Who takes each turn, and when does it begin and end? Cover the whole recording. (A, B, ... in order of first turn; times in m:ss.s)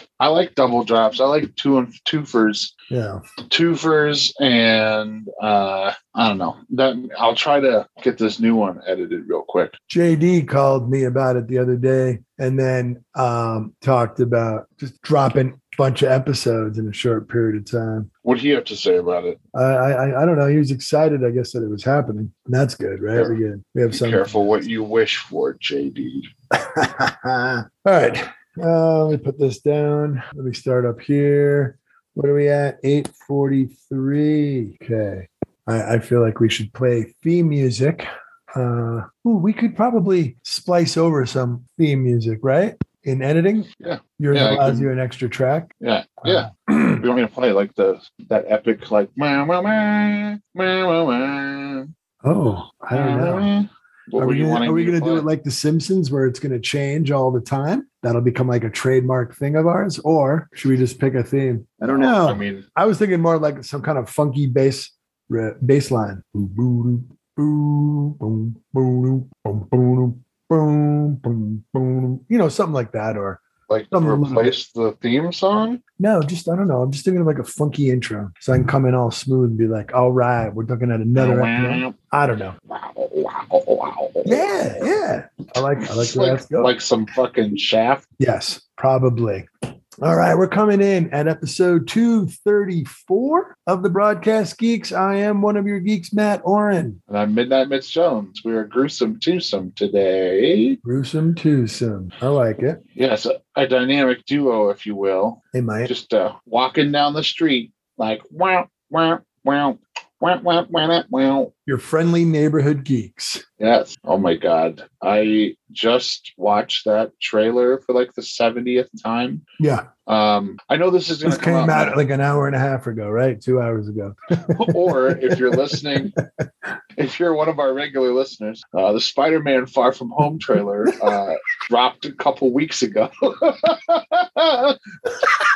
0:00.2-0:02.7 A
0:02.9-0:03.2 B
0:03.5-0:09.7 A
0:09.9-0:18.1 B
0:18.2-0:19.4 A
0:19.5-0:24.3 B
0:23.9-0:26.3 A
0:26.5-0:45.7 B
0:43.8-0:44.9 A
0:45.8-0:51.9 A
0:46.2-0:47.0 B
0:52.2-0:53.5 B
0:52.9-0:55.3 A
0:54.2-1:14.5 B
1:01.8-1:02.6 A
1:13.7-1:15.8 A
1:16.0-1:22.6 B
1:21.2-1:22.0 A
1:22.7-1:24.5 A
1:24.2-1:26.7 B
1:25.9-1:28.0 A
1:28.2-1:29.5 B
1:30.0-1:37.0 B
1:37.1-1:40.8 A
1:40.8-1:42.8 B
1:43.0-1:51.5 A
1:45.5-1:45.9 B
1:51.7-1:53.4 B
1:53.6-1:59.4 A
1:59.6-1:59.9 B
2:00.1-2:02.0 A
2:01.2-2:06.4 B
2:04.5-2:06.1 A
2:07.0-2:14.8 A